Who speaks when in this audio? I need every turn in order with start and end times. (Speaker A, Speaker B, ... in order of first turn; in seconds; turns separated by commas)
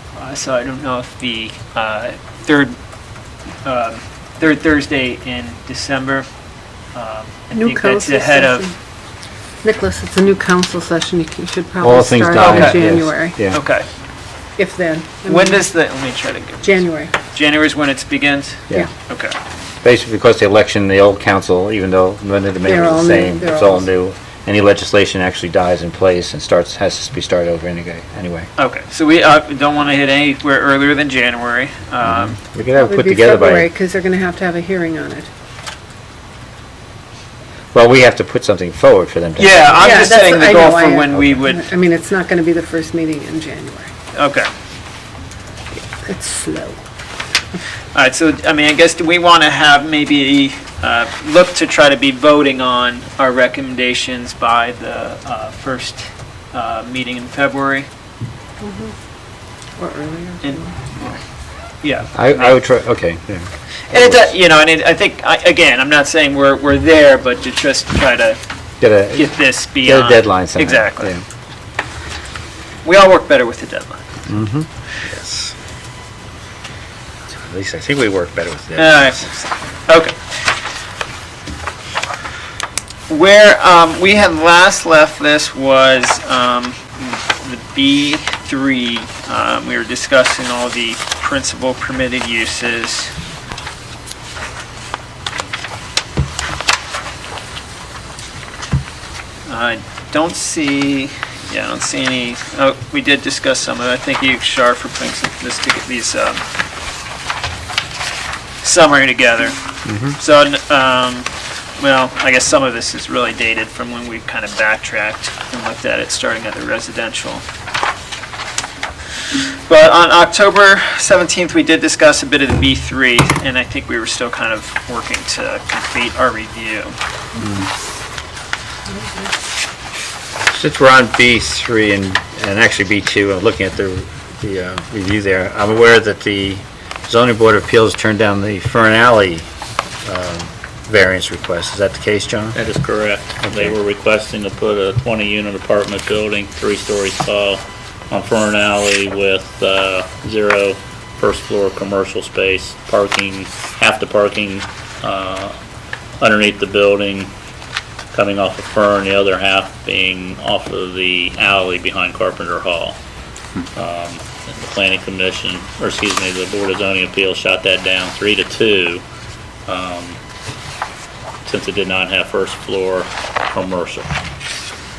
Speaker A: 0.2-2.8, Speaker A: 3.6-6.3, Speaker A: 6.9-8.7, Speaker B: 7.5-8.8, Speaker B: 9.6-13.4, Speaker C: 11.8-13.6, Speaker A: 12.4-12.8, Speaker A: 13.5-13.9, Speaker B: 14.6-15.6, Speaker A: 15.3-19.4, Speaker B: 16.6-17.1, Speaker C: 19.8-28.5, Speaker B: 22.7-23.9, Speaker A: 28.6-32.4, Speaker C: 32.0-33.7, Speaker B: 32.7-35.3, Speaker C: 37.7-40.1, Speaker A: 39.4-41.6, Speaker B: 39.8-43.9, Speaker C: 41.1-41.4, Speaker A: 44.1-44.5, Speaker B: 46.0-46.8, Speaker A: 47.9-57.9, Speaker B: 58.6-58.9, Speaker B: 59.8-60.8, Speaker A: 60.4-61.2, Speaker A: 61.8-62.6, Speaker C: 62.1-64.2, Speaker A: 63.9-68.4, Speaker C: 68.8-71.2, Speaker A: 69.2-71.1, Speaker A: 72.8-74.1, Speaker C: 74.3-75.5, Speaker C: 77.3-79.2, Speaker A: 78.8-80.2, Speaker A: 83.1-93.1, Speaker A: 99.5-106.5, Speaker A: 108.6-109.6, Speaker C: 109.8-110.2, Speaker A: 110.1-117.4, Speaker A: 119.7-127.0, Speaker C: 127.4-127.7, Speaker B: 128.9-129.3, Speaker C: 130.5-139.5, Speaker C: 140.0-142.6, Speaker D: 142.6-155.6, Speaker C: 143.4-143.7, Speaker D: 156.2-157.3, Speaker D: 158.1-163.0, Speaker D: 163.7-169.0, Speaker D: 169.7-170.2, Speaker D: 171.4-174.1